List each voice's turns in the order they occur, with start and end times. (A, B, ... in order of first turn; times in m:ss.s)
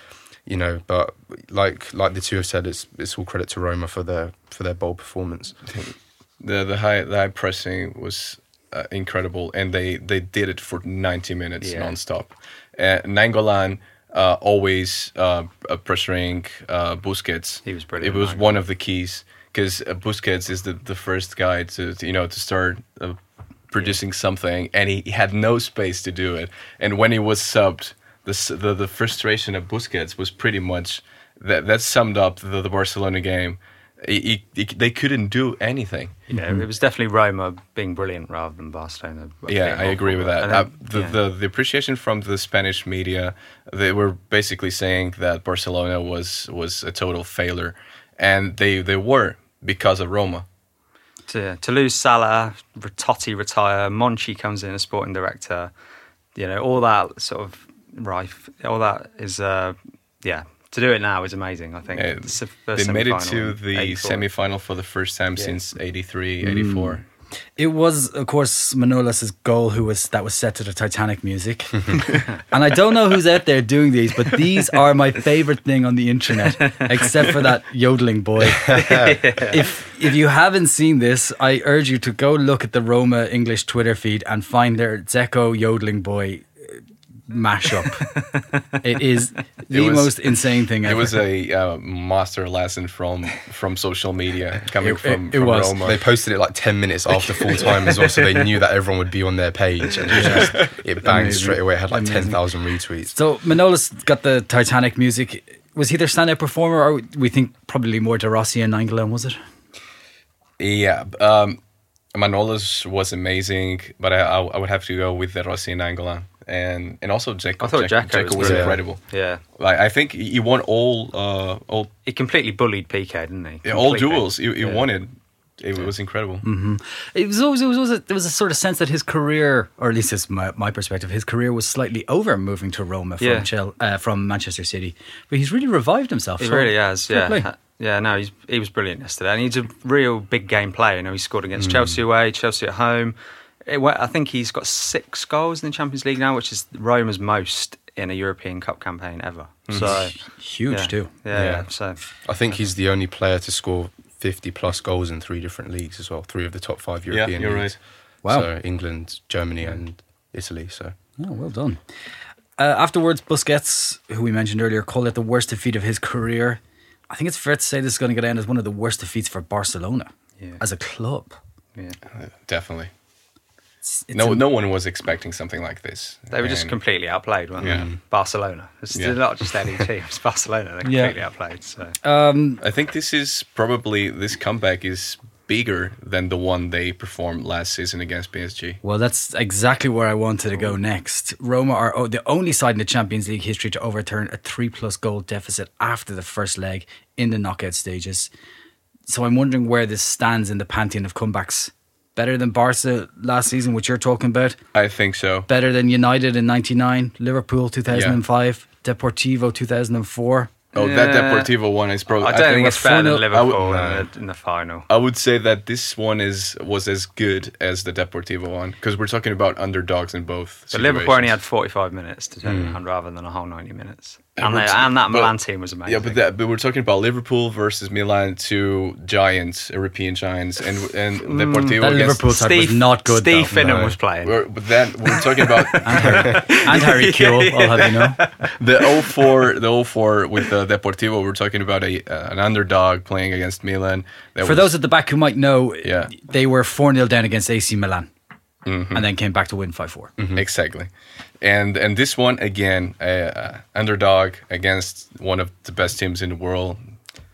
0:00.5-0:05.6 A
0:05.7-0:36.2 B
0:11.6-0:12.0 C
0:17.6-0:18.6 C
0:36.3-0:41.2 C
0:36.3-0:36.7 D
0:39.5-0:50.5 B
0:51.3-0:55.7 C
0:56.4-1:04.3 C
1:01.9-1:07.0 B
1:06.4-1:07.0 D
1:07.6-1:28.2 D
1:16.6-1:17.1 C
1:18.7-1:19.6 C
1:18.8-1:19.2 A
1:27.9-1:28.6 C
1:28.8-1:31.2 D
1:29.7-1:30.3 B
1:30.8-1:36.0 B
1:34.8-1:35.8 D
1:35.8-1:43.1 A
1:37.8-1:38.4 C
1:40.1-1:42.4 D
1:40.2-1:40.7 B
1:43.1-1:49.4 D
1:50.6-1:51.6 B
1:52.1-2:01.9 B
1:57.6-1:59.4 C
1:58.4-1:58.8 A
2:02.0-2:04.9 C
2:03.6-2:06.4 B
2:06.4-2:17.5 D
2:13.2-2:13.5 C
2:16.4-2:32.0 C
2:21.6-2:21.9 A
2:29.7-2:30.0 B
2:29.8-2:31.1 D
2:31.3-2:31.7 B
2:32.2-2:41.0 A
2:37.1-2:37.8 B
2:41.2-2:41.8 D
2:42.6-2:51.4 D
2:52.1-2:52.9 B
2:53.8-2:54.4 D
2:54.1-2:56.8 B
2:56.3-3:02.0 C
2:57.6-2:57.9 B
2:57.6-2:58.0 A
3:00.8-3:01.2 D
3:02.0-3:02.6 D
3:02.6-3:08.8 B
3:08.8-3:18.3 D
3:19.1-3:24.6 D
3:24.7-3:25.5 B
3:25.5-3:30.5 D
3:27.9-3:28.2 B
3:30.8-3:31.5 C
3:30.8-3:34.0 B
3:32.1-3:34.9 C
3:32.5-3:33.2 D
3:33.7-3:34.1 A
3:34.9-3:41.4 B
3:40.7-3:46.2 C
3:42.4-3:42.8 A
3:44.4-3:52.3 B
3:51.2-3:54.5 C
3:51.8-3:53.6 D
3:53.5-3:54.0 A
3:54.2-3:56.4 B
3:55.0-3:59.4 C
3:55.8-3:58.2 D
3:58.5-4:04.7 B
4:04.4-4:08.1 D
4:05.8-4:06.1 B
4:08.6-4:09.1 B
4:08.9-4:10.1 D
4:10.2-4:10.4 A
4:10.4-4:16.8 B